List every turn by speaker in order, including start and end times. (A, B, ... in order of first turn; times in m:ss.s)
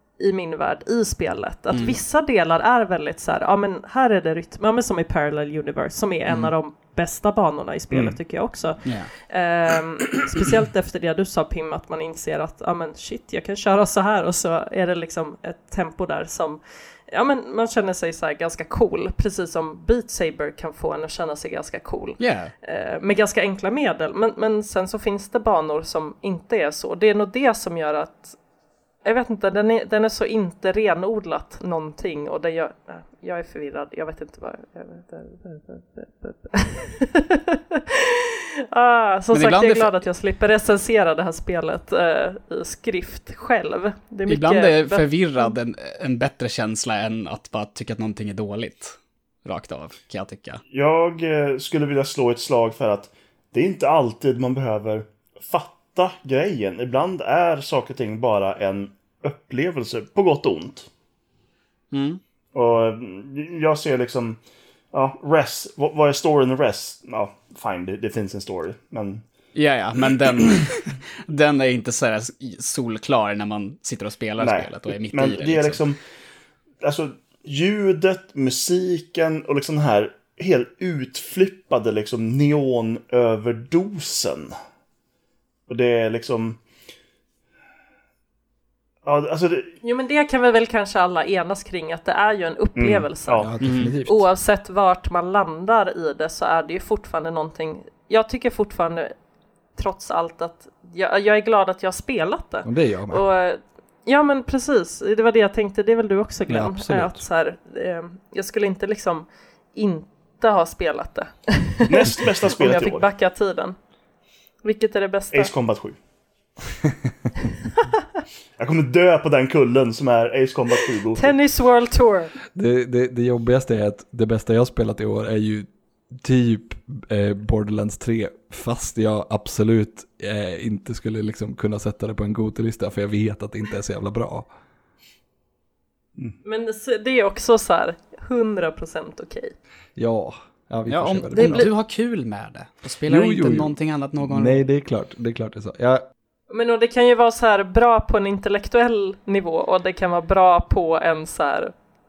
0:00.2-0:28.4 A
0:01.7-0:02.0 B
0:07.9-0:08.2 C
0:08.8-0:09.1 B
0:22.2-0:22.5 B
0:29.0-0:38.2 A
0:38.7-0:45.5 A
0:39.3-0:39.9 B
0:44.3-0:50.6 B
0:50.7-1:00.9 C
1:01.9-1:02.2 B
1:02.5-1:04.4 C
1:04.9-1:09.2 C
1:09.5-1:15.8 B
1:14.4-1:16.0 C
1:16.8-1:24.5 C
1:25.7-1:26.6 C
1:29.0-1:29.7 C
1:29.8-1:39.1 A
1:32.8-1:33.5 C
1:33.3-1:34.3 D
1:33.6-1:33.9 B
1:39.8-1:53.8 A
1:42.6-1:43.2 D
1:46.5-1:47.2 D
1:51.8-1:53.0 C
1:54.6-1:55.5 A
1:55.3-1:56.0 C
1:58.6-2:01.3 C
2:01.2-2:02.3 A
2:02.5-2:14.5 D
2:16.4-2:19.6 A
2:20.0-2:21.7 D
2:20.9-2:24.6 B
2:21.3-2:21.7 A
2:23.1-2:26.0 D
2:26.5-2:31.7 A